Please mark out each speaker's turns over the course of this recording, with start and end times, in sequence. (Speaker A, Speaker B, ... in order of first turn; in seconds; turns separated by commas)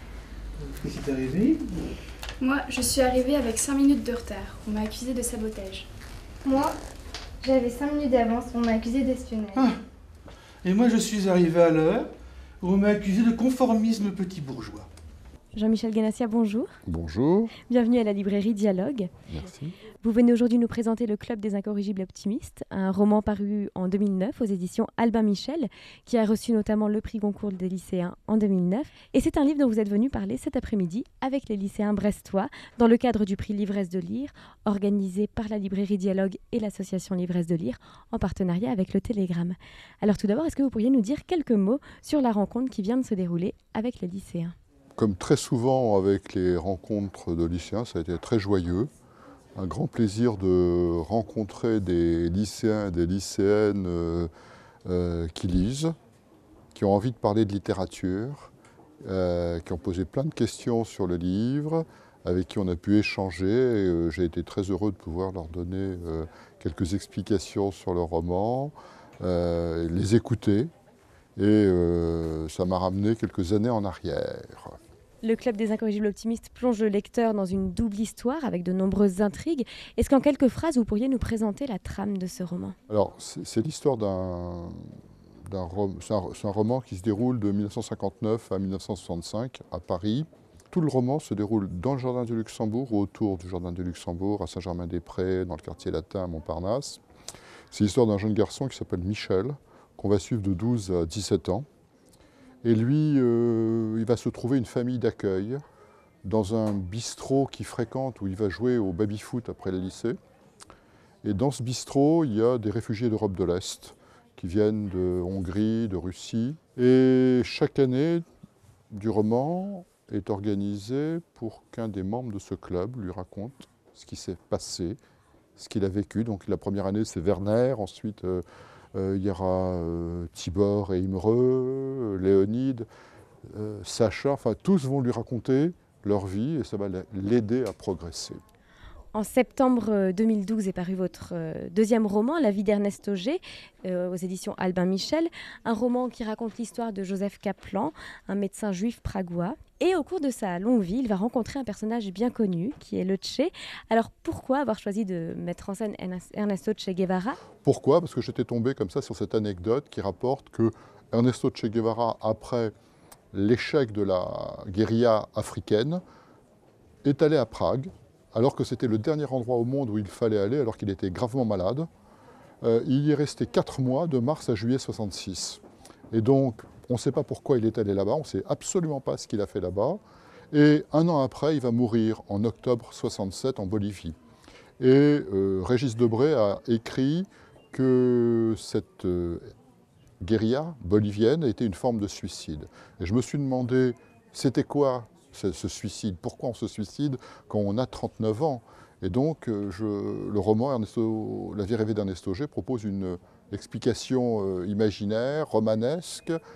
Speaker A: 0.6-1.9, Speaker B: 2.4-5.9, Speaker C: 6.5-6.8, Speaker C: 7.4-9.6, Speaker A: 10.6-12.1, Speaker A: 12.6-14.9, Speaker D: 15.5-16.7, Speaker E: 16.9-17.5, Speaker D: 17.6-19.1, Speaker E: 19.3-19.7, Speaker D: 20.0-44.5, Speaker E: 45.0-48.9, Speaker E: 49.5-54.3, Speaker E: 54.8-56.0, Speaker E: 56.7-58.5, Speaker E: 59.0-70.7, Speaker E: 71.4-74.8, Speaker D: 75.2-82.8, Speaker E: 82.9-84.9, Speaker E: 85.5-97.0, Speaker E: 97.7-101.7, Speaker E: 102.6-105.6, Speaker E: 106.2-110.2, Speaker E: 111.2-118.2, Speaker E: 118.9-125.0, Speaker E: 125.6-128.4, Speaker E: 128.9-132.9, Speaker E: 133.5-138.4, Speaker D: 139.1-157.4, Speaker E: 157.6-162.7, Speaker E: 163.3-166.0, Speaker E: 167.0-171.9, Speaker E: 172.6-175.6, Speaker E: 176.1-180.0, Speaker E: 180.5-184.2, Speaker E: 184.8-189.4, Speaker E: 190.2-206.4